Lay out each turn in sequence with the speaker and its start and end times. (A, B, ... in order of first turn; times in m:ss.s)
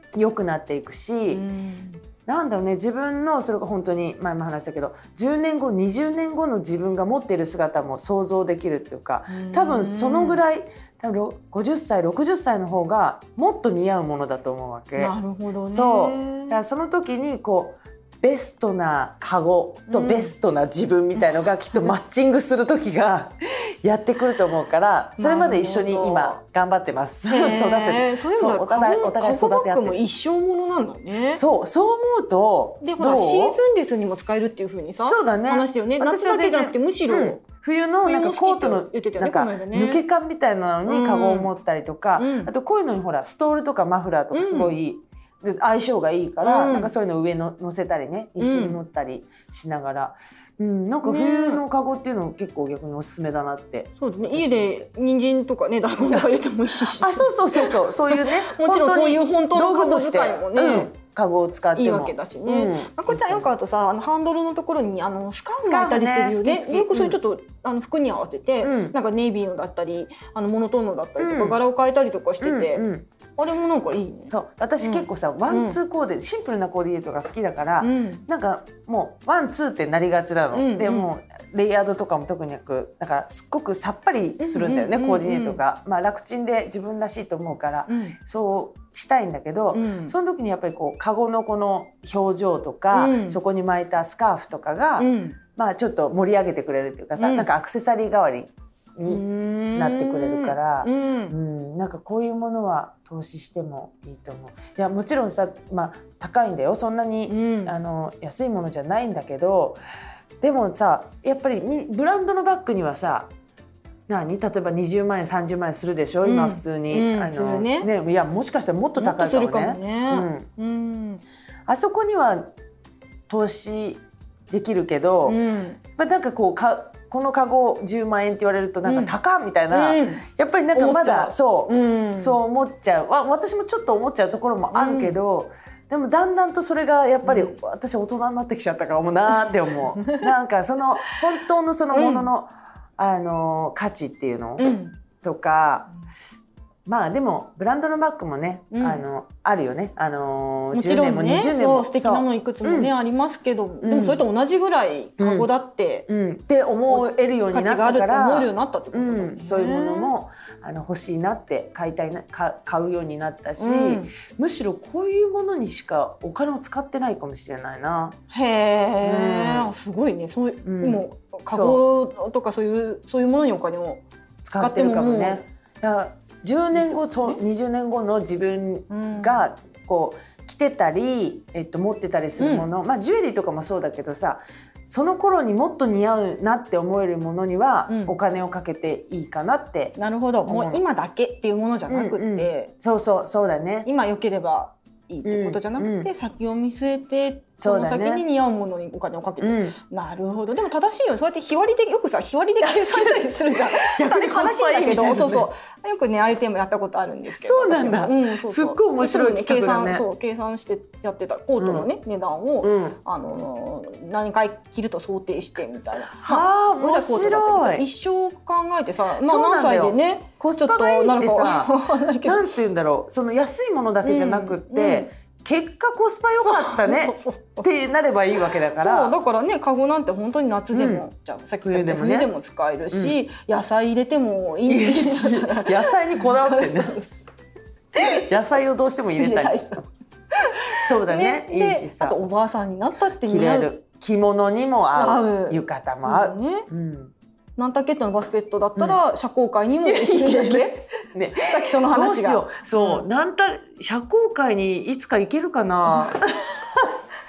0:00.2-0:01.4 A
0:01.3-0:02.0 B
0:02.2-0:15.1 A
0:09.3-0:10.4 B
0:15.0-0:16.6 B
0:15.6-0:30.0 A
0:19.9-0:20.3 B
0:21.2-0:21.9 B
0:25.2-0:26.4 B
0:27.3-0:31.4 B
0:31.3-0:33.6 A
0:32.8-0:37.4 B
0:35.1-0:54.8 A
0:38.0-0:40.0 B
0:40.9-0:41.5 B
0:42.2-0:42.5 B
0:44.3-0:44.7 B
0:46.4-0:46.9 B
0:48.4-0:48.8 B
0:51.0-0:51.6 B
0:54.0-1:00.9 B
0:56.9-1:03.5 A
1:01.8-1:15.8 B
1:05.6-1:07.2 A
1:08.6-1:09.0 A
1:11.2-1:11.6 A
1:12.4-1:13.1 A
1:14.3-1:39.2 A
1:17.8-1:18.3 B
1:20.5-1:21.1 B
1:24.4-1:25.6 B
1:27.9-1:28.2 B
1:29.7-1:30.1 B
1:32.9-1:33.4 B
1:35.0-1:35.4 B
1:37.2-1:37.5 B
1:39.1-1:41.3 B
1:39.7-1:49.8 A
1:47.3-1:47.7 B
1:50.4-1:53.3 A
1:54.1-2:00.5 A
1:56.2-1:57.9 B
1:59.0-2:01.2 B
2:01.7-2:02.5 A
2:03.3-2:05.4 A
2:05.2-2:05.8 B
2:06.0-2:25.9 A
2:08.8-2:09.1 B
2:09.7-2:12.4 B
2:14.7-2:15.2 B
2:17.2-2:17.6 B
2:20.0-2:20.3 B
2:21.9-2:22.3 B
2:24.6-2:25.0 B
2:26.8-2:32.9 A
2:28.7-2:29.0 B
2:30.7-2:36.1 B
2:33.8-2:34.2 A
2:35.2-2:35.5 A
2:36.1-2:48.2 A
2:36.9-2:40.1 B
2:43.6-2:44.1 B
2:48.3-2:54.0 B
2:49.0-2:49.7 A
2:50.6-2:51.8 A
2:54.4-3:10.8 A
2:54.6-2:55.4 B
2:56.7-2:57.4 B
2:58.9-2:59.4 B
3:02.4-3:02.7 B
3:07.9-3:08.2 B
3:10.0-3:12.7 B
3:11.9-3:13.9 A
3:13.8-3:42.5 B
3:15.2-3:16.1 A
3:17.6-3:18.2 A
3:19.4-3:19.8 A
3:22.6-3:25.5 A
3:27.4-3:30.0 A
3:31.6-3:31.9 A
3:32.6-3:33.0 A
3:36.2-3:37.8 A
3:39.2-3:49.2 A
3:44.0-3:45.1 B
3:46.4-3:47.7 B
3:48.7-3:57.1 B
3:50.7-3:51.0 A
3:51.6-3:52.3 A
3:52.9-3:53.2 A
3:54.6-3:57.0 A
3:58.0-3:59.8 A
3:59.2-3:59.8 B
4:00.4-4:03.7 B
4:00.8-4:02.3 A
4:03.2-4:07.1 A
4:04.9-4:06.7 B
4:07.6-4:13.0 B
4:09.8-4:16.2 A
4:15.9-4:16.5 B